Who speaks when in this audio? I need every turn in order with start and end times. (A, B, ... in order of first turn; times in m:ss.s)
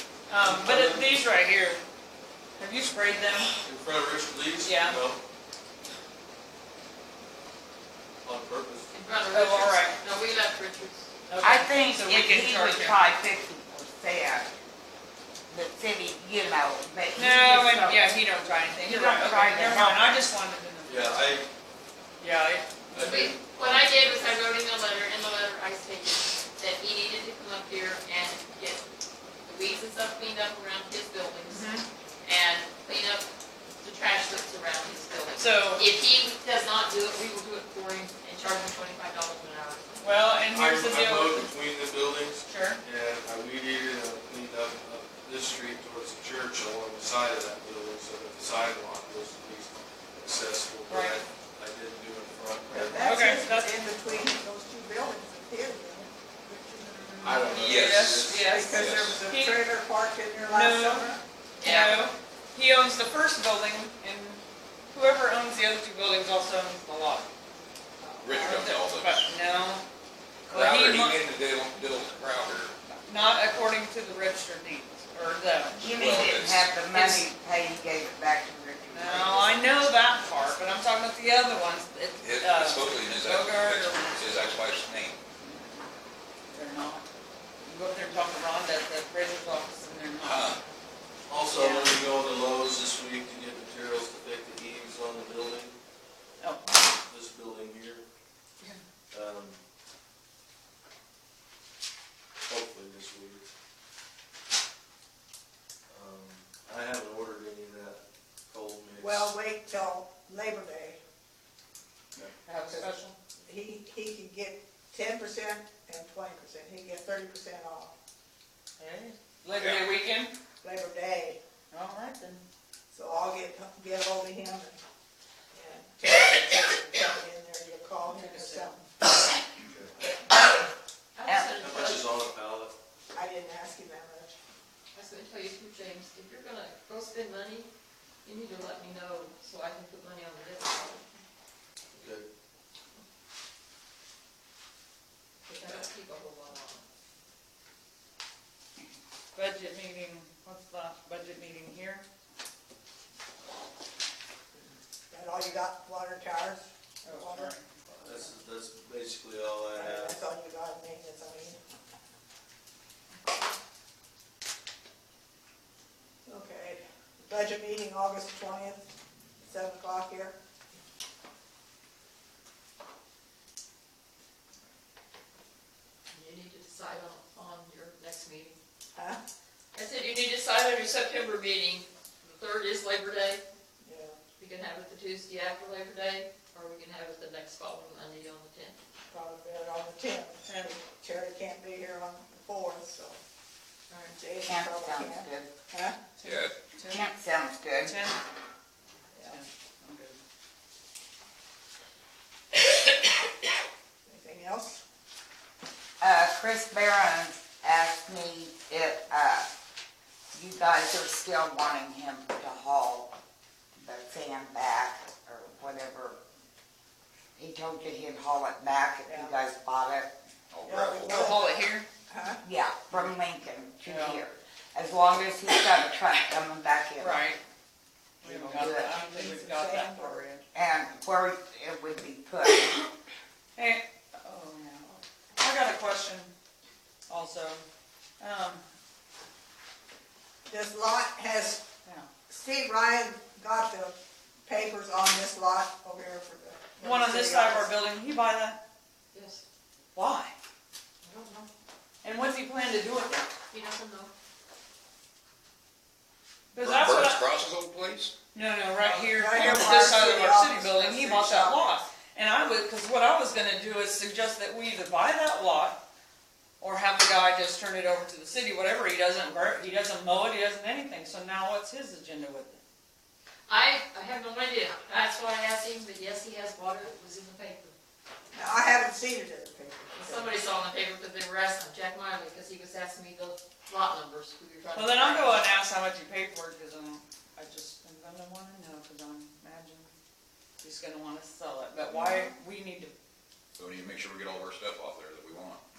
0:00.3-0:01.8 A
0:00.4-0:01.1 B
0:02.6-0:03.5 A
0:03.6-0:05.2 B
0:04.6-0:05.0 A
0:08.2-0:08.9 B
0:08.9-0:11.1 C
0:09.3-0:10.0 A
0:11.3-0:13.0 A
0:11.4-0:14.5 D
0:15.5-0:18.1 D
0:17.2-0:21.2 A
0:18.8-0:20.1 D
0:20.9-0:21.5 B
0:22.2-0:23.3 A
0:22.9-0:23.9 B
0:23.0-0:28.9 C
0:29.4-0:33.3 C
0:31.5-0:31.8 A
0:33.8-0:40.2 C
0:35.4-0:35.9 A
0:40.0-0:41.5 A
0:40.5-0:53.2 B
0:42.5-0:42.8 A
0:50.9-0:51.2 A
0:52.7-0:56.8 E
0:53.0-0:53.8 A
0:56.8-0:59.7 A
0:57.2-0:58.5 B
0:57.6-0:59.2 F
0:58.4-1:01.2 E
1:00.4-1:04.4 A
1:01.6-1:02.1 C
1:04.9-1:07.3 A
1:08.0-1:08.8 E
1:08.2-1:09.3 F
1:08.6-1:09.8 A
1:10.5-1:12.7 F
1:10.5-1:11.2 A
1:12.9-1:15.8 A
1:15.8-1:19.7 D
1:15.9-1:16.7 F
1:16.9-1:17.3 A
1:18.9-1:24.2 A
1:22.2-1:25.2 F
1:25.4-1:25.8 A
1:26.5-1:27.1 A
1:27.6-1:30.6 A
1:30.2-1:30.6 F
1:31.3-1:35.7 B
1:31.6-1:31.9 A
1:36.4-1:36.8 A
1:37.0-1:38.0 B
1:39.1-1:39.6 B
1:42.4-1:43.5 B
1:45.9-1:49.4 B
1:49.0-1:51.0 E
1:52.4-1:53.2 A
1:53.4-1:57.9 E
1:58.8-2:00.3 A
1:59.6-1:59.8 F
2:00.6-2:01.4 E
2:01.7-2:02.4 A
2:02.9-2:04.8 E
2:05.5-2:08.9 E
2:08.1-2:08.8 A
2:09.7-2:10.0 B
2:11.2-2:12.1 C
2:11.6-2:12.7 B
2:13.1-2:14.4 E
2:14.9-2:17.7 C
2:18.2-2:21.2 C
2:22.0-2:22.3 B
2:25.5-2:26.8 C
2:29.3-2:32.0 A
2:35.1-2:37.5 E
2:37.0-2:38.3 A
2:37.9-2:40.2 B
2:39.7-2:41.6 E
2:46.2-2:48.8 E
2:49.4-2:50.4 E
2:56.1-2:58.6 C
2:58.9-2:59.2 E
2:59.7-3:03.4 C
3:03.8-3:04.2 E
3:04.4-3:08.8 C
3:09.1-3:13.2 E
3:10.5-3:10.7 A
3:13.9-3:14.2 C
3:14.2-3:16.0 E
3:14.4-3:15.5 D
3:16.2-3:17.1 A
3:16.2-3:16.5 F
3:16.9-3:18.0 D
3:17.8-3:18.2 A
3:19.2-3:20.2 A
3:24.1-3:24.8 E
3:26.0-3:29.5 D
3:30.3-3:33.1 D
3:33.8-3:36.2 D
3:37.4-3:40.1 D
3:39.0-3:39.4 E
3:40.5-3:41.3 F
3:40.6-3:41.6 E
3:41.1-3:41.9 A
3:42.1-3:42.4 E
3:42.4-3:47.2 D
3:43.9-3:44.2 A
3:47.0-3:47.4 A
3:48.2-3:50.4 A
3:48.2-3:49.0 D
3:48.3-3:50.2 E
3:50.5-3:52.8 D
3:53.6-3:56.3 A
3:57.1-3:57.6 A
3:58.2-3:58.6 A
4:00.5-4:01.6 E
4:01.8-4:02.1 A
4:02.3-4:07.7 E
4:06.8-4:08.6 A
4:09.1-4:09.4 C
4:09.9-4:10.3 A
4:11.0-4:11.5 C
4:12.0-4:13.3 A
4:13.5-4:14.1 C
4:16.5-4:17.2 A
4:16.6-4:18.1 F
4:18.3-4:25.8 A
4:18.8-4:21.8 E
4:26.6-4:32.6 A
4:33.5-4:37.8 C
4:38.3-4:40.4 E
4:39.9-4:45.4 C
4:44.7-4:49.9 A
4:50.6-4:52.9 A
4:53.6-4:55.6 F